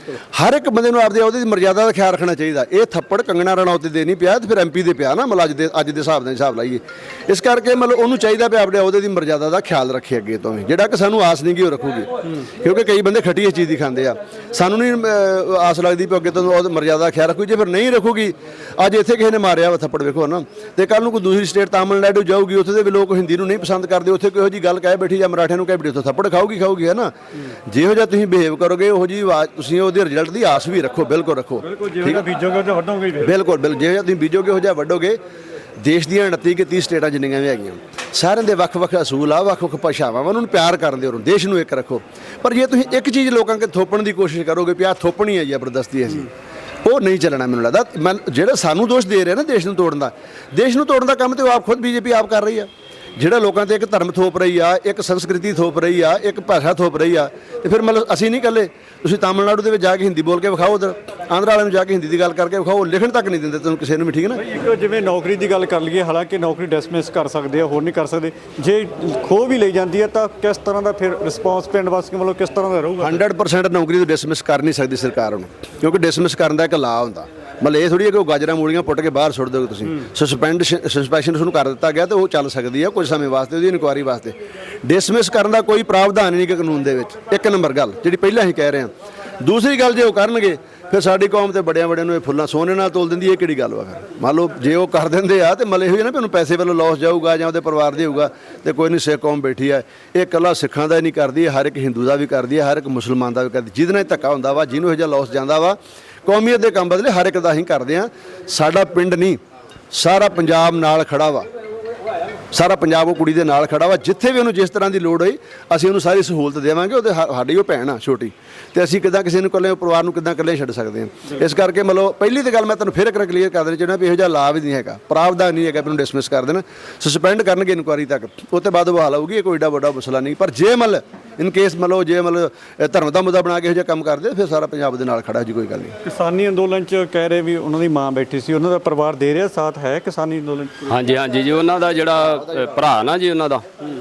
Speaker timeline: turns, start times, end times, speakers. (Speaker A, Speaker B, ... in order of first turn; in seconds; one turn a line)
Speaker A: 0.3-27.1
Speaker A: 27.7-32.2
Speaker B: 31.6-33.3
Speaker A: 33.2-35.2
Speaker A: 35.8-46.3
Speaker A: 46.9-64.4
Speaker B: 64.4-73.2
Speaker A: 73.0-88.9
Speaker A: 89.4-109.4
Speaker A: 109.9-111.5
Speaker A: 112.5-135.9
Speaker B: 136.0-140.7
Speaker C: 140.9-143.7